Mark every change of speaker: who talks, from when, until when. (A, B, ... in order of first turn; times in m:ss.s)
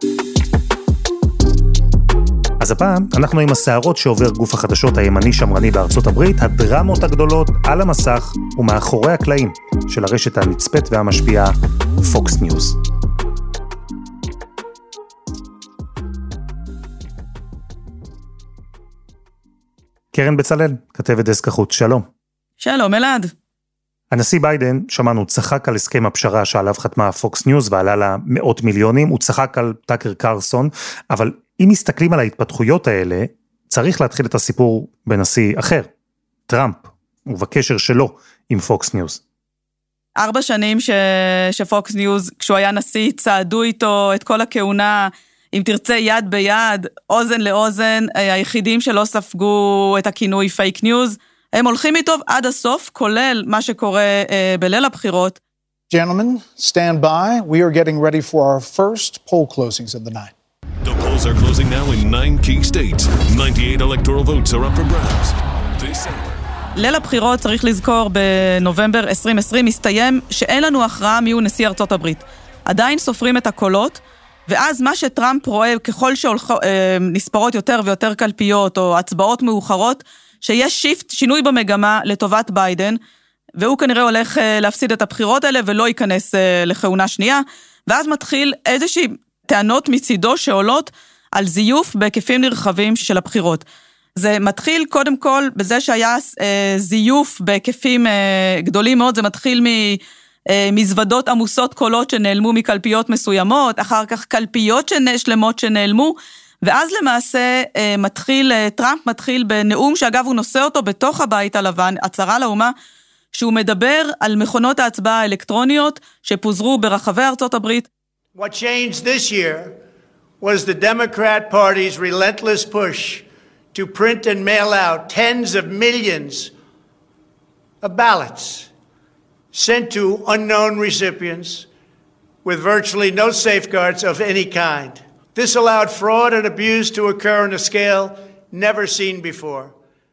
0:02.6-0:12.8 A
0:20.1-0:22.1 A
0:22.6-0:23.3 B
0:24.1-0:35.9 A
0:36.5-0:39.2 A
0:40.2-0:55.4 B
0:55.9-1:00.3 C
1:00.8-1:06.4 D
1:06.8-1:23.0 B
1:23.6-1:33.6 B
1:34.2-1:52.7 B
1:53.3-1:57.9 B
1:58.4-1:59.8 E
2:00.4-2:06.5 E
2:07.8-2:08.7 E
2:09.5-2:11.7 E
2:12.4-2:19.7 E